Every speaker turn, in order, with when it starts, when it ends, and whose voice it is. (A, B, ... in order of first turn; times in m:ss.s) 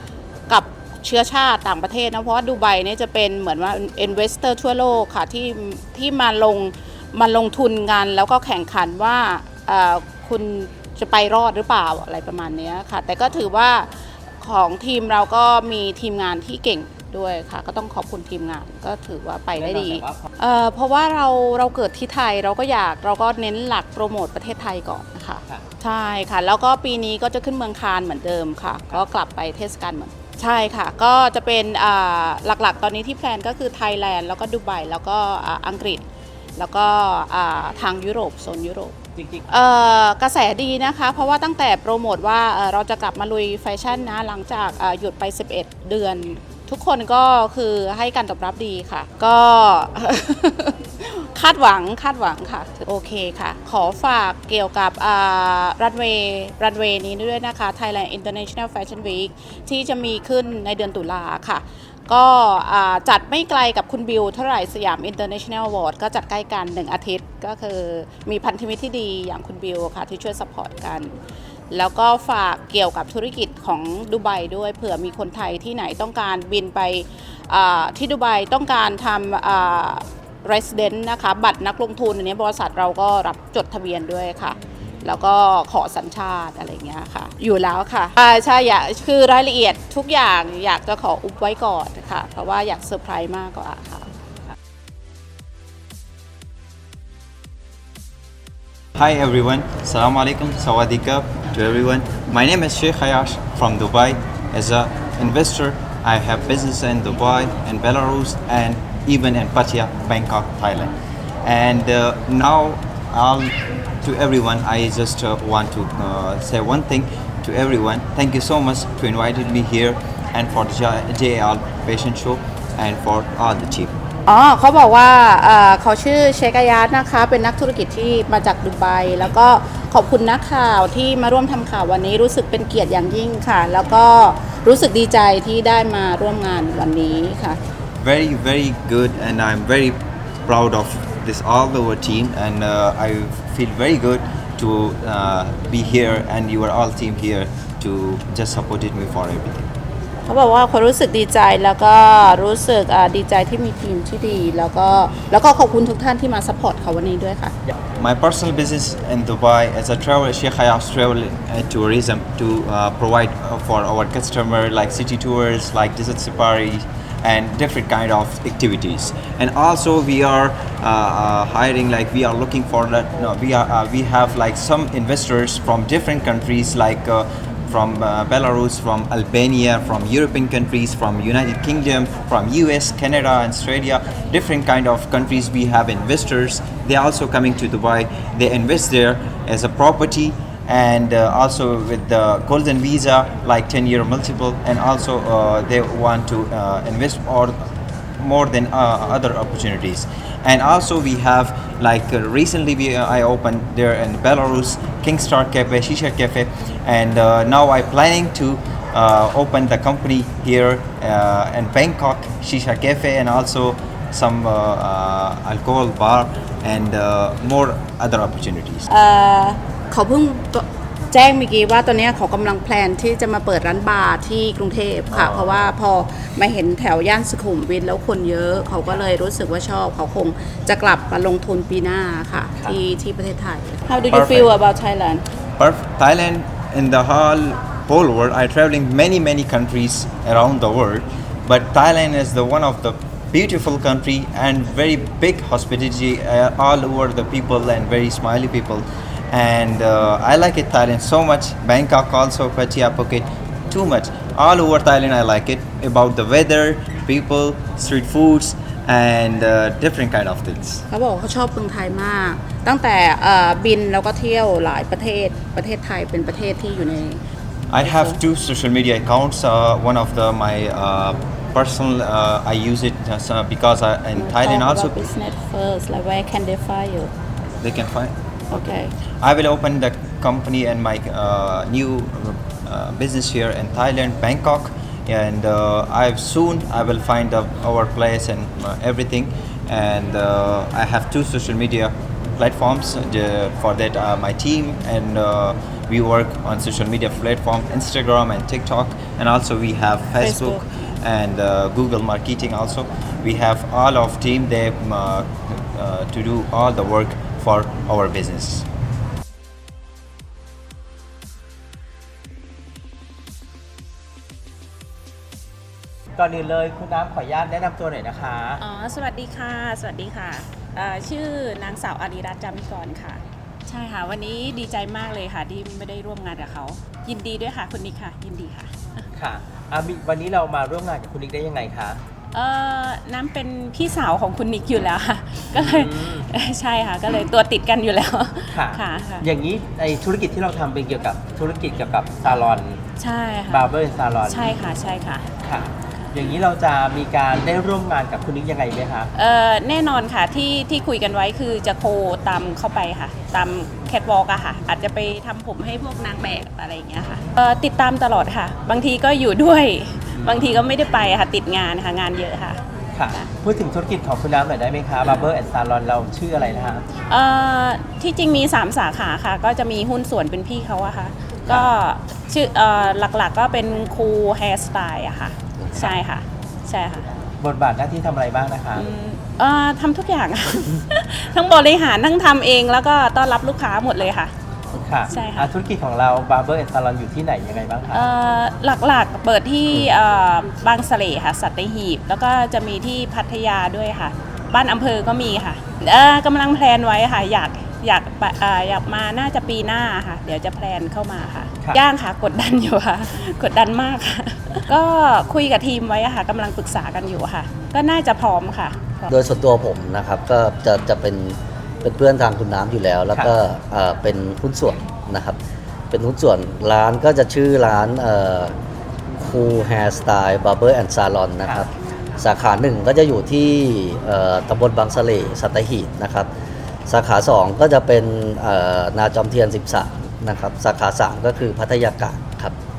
0:00.5-0:36.0 A
0:19.5-0:20.3 B
0:36.6-0:38.9 A
0:39.2-0:39.4 B
0:39.5-1:11.1 A
1:11.7-1:34.1 A
1:39.0-1:50.9 C
1:51.4-2:03.9 C
2:04.2-2:17.6 A
2:18.0-2:29.7 C
2:30.2-2:37.5 A
2:38.0-3:17.7 C
3:18.2-3:38.9 C
3:38.9-3:55.2 A
3:45.1-3:45.6 B
3:54.1-3:54.5 C
3:55.6-4:20.8 C
4:20.9-4:27.2 A
4:27.7-4:35.0 C
4:27.8-4:28.2 A
4:34.1-4:37.1 A
4:37.6-4:38.6 C
4:38.5-4:38.9 A
4:39.2-5:08.6 C
5:00.2-5:00.5 D
5:16.2-5:18.6 B
5:18.6-5:29.0 D
5:29.1-5:32.0 B
5:32.3-5:39.2 D
5:35.5-5:36.3 B
5:38.5-5:42.8 B
5:43.0-5:43.7 D
5:43.5-5:44.6 B
5:44.2-5:45.2 D
5:45.4-5:49.1 B
5:49.1-6:02.6 D
6:00.1-6:00.6 B
6:02.9-6:06.8 B
6:07.0-6:17.1 D
6:15.6-6:15.9 E
6:17.4-6:18.9 B
6:18.7-6:24.3 D
6:24.7-6:28.1 B
6:25.1-6:25.5 D
6:27.9-6:49.1 D
6:49.1-6:55.4 E
6:55.9-6:58.6 E
6:59.2-7:06.3 E
7:01.4-7:01.7 B
7:06.9-7:12.6 E